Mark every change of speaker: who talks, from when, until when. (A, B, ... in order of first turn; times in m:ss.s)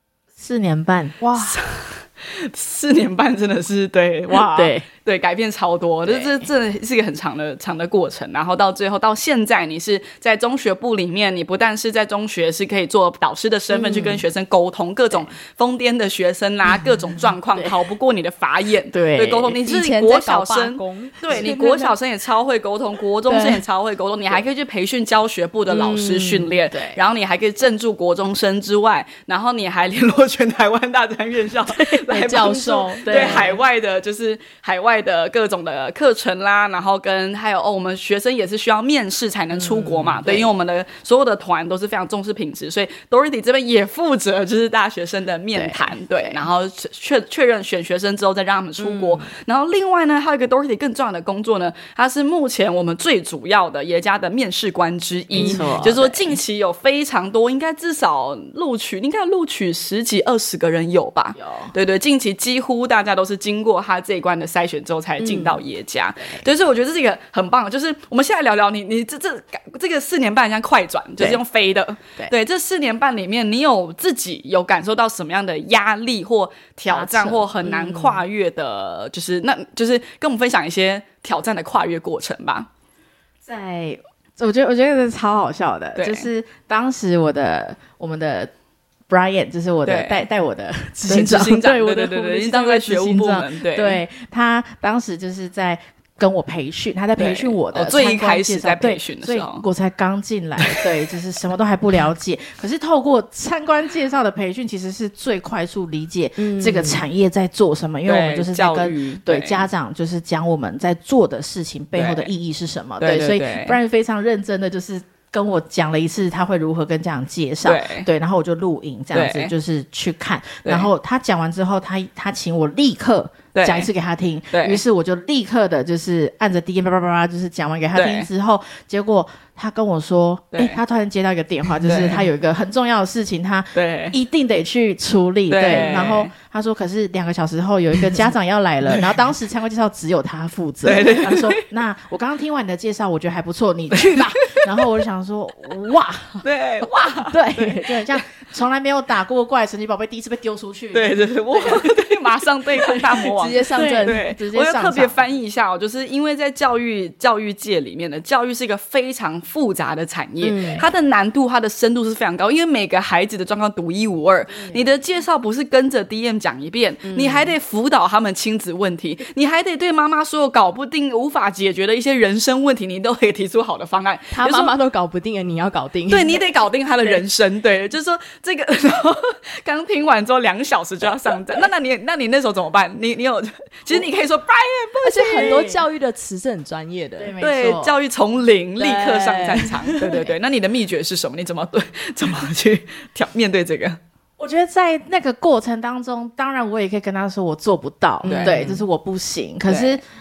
0:00.4-0:01.2 A
0:01.2-0:01.6 B
0:01.3-1:22.7 C
0:04.3-0:04.8 A
0:06.1-0:06.4 A
0:13.7-0:14.2 A
0:13.8-0:14.1 B
0:17.5-0:17.8 A
0:18.9-0:19.6 A
0:19.5-0:22.0 B
0:23.3-0:23.6 B
0:25.7-0:26.5 B
0:26.7-0:27.0 A
0:31.7-0:33.6 B
0:33.0-0:33.6 A
0:39.5-0:40.3 B
0:40.2-0:40.5 A
0:45.5-0:46.5 A
0:48.8-0:49.3 B
0:55.3-0:56.3 A
0:55.4-0:56.0 B
1:01.4-1:01.7 A
1:05.2-1:05.6 B
1:06.2-1:06.4 A
1:16.9-1:18.2 B
1:23.4-1:28.5 A
1:26.0-1:26.3 C
1:29.1-2:26.5 A
1:29.8-1:30.3 C
1:31.1-1:34.0 C
1:37.2-1:39.6 C
1:46.4-1:47.0 B
1:48.0-1:49.7 C
1:52.0-1:52.3 C
1:53.0-1:53.8 C
1:57.6-1:58.1 C
1:59.1-1:59.5 C
2:00.6-2:00.9 C
2:03.5-2:03.9 C
2:04.5-2:04.8 C
2:08.0-2:08.3 C
2:10.5-2:10.8 C
2:11.8-2:12.2 C
2:13.8-2:14.2 C
2:15.5-2:16.3 C
2:20.8-2:21.6 C
2:23.9-2:24.2 C
2:26.4-2:28.0 C
2:27.2-2:32.0 A
2:30.9-2:54.8 C
2:32.8-2:35.3 A
2:33.4-2:34.3 B
2:40.4-2:40.8 B
2:44.5-2:44.9 A
2:47.0-2:47.5 B
2:54.3-2:56.5 B
2:56.1-3:05.7 C
3:05.0-3:07.3 B
3:05.3-3:05.8 A
3:07.2-3:08.0 A
3:07.4-3:14.0 C
3:08.8-3:10.3 B
3:14.4-3:20.0 A
3:18.2-3:18.8 B
3:18.2-3:18.7 C
3:19.7-3:20.0 C